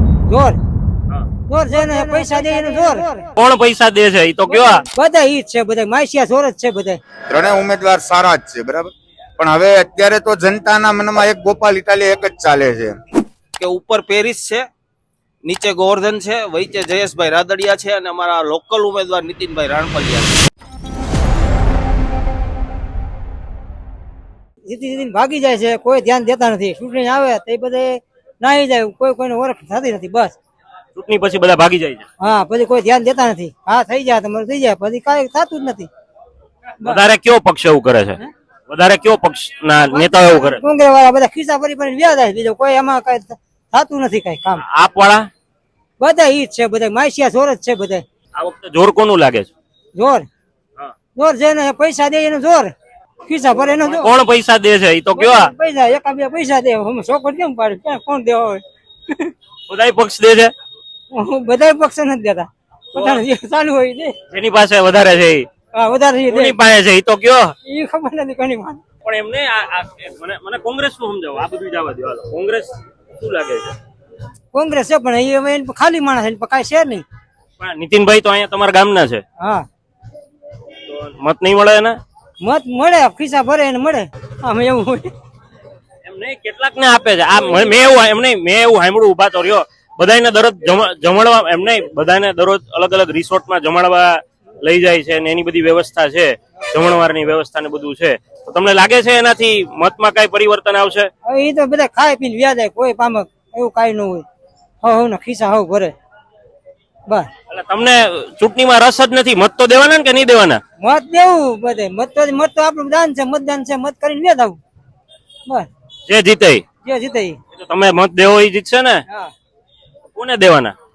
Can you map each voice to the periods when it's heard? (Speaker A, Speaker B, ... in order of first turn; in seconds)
Speaker A: 0.3-0.6, 1.5-3.3, 4.6-7.0, 24.7-30.4, 32.2-35.9, 39.9-44.6, 46.0-48.0, 50.0-50.3, 51.2-52.7, 53.2-54.1, 55.1-59.3, 61.1-64.2, 65.8-66.6, 67.7-68.8, 74.5-77.0, 79.4-79.7, 82.4-85.1, 101.3-104.2, 104.8-105.9, 110.8-114.6, 116.8-117.4
Speaker B: 3.4-4.8, 30.9-32.1, 36.8-40.6, 44.6-45.3, 48.4-49.5, 53.8-55.5, 59.7-60.5, 63.0-63.2, 64.3-65.5, 66.3-67.5, 69.0-73.8, 77.6-79.2, 80.9-82.0, 86.0-101.1, 107.5-110.6, 116.1-116.7, 117.6-119.0, 120.2-120.8
Speaker C: 7.3-13.0
Speaker D: 13.6-14.6, 15.4-20.4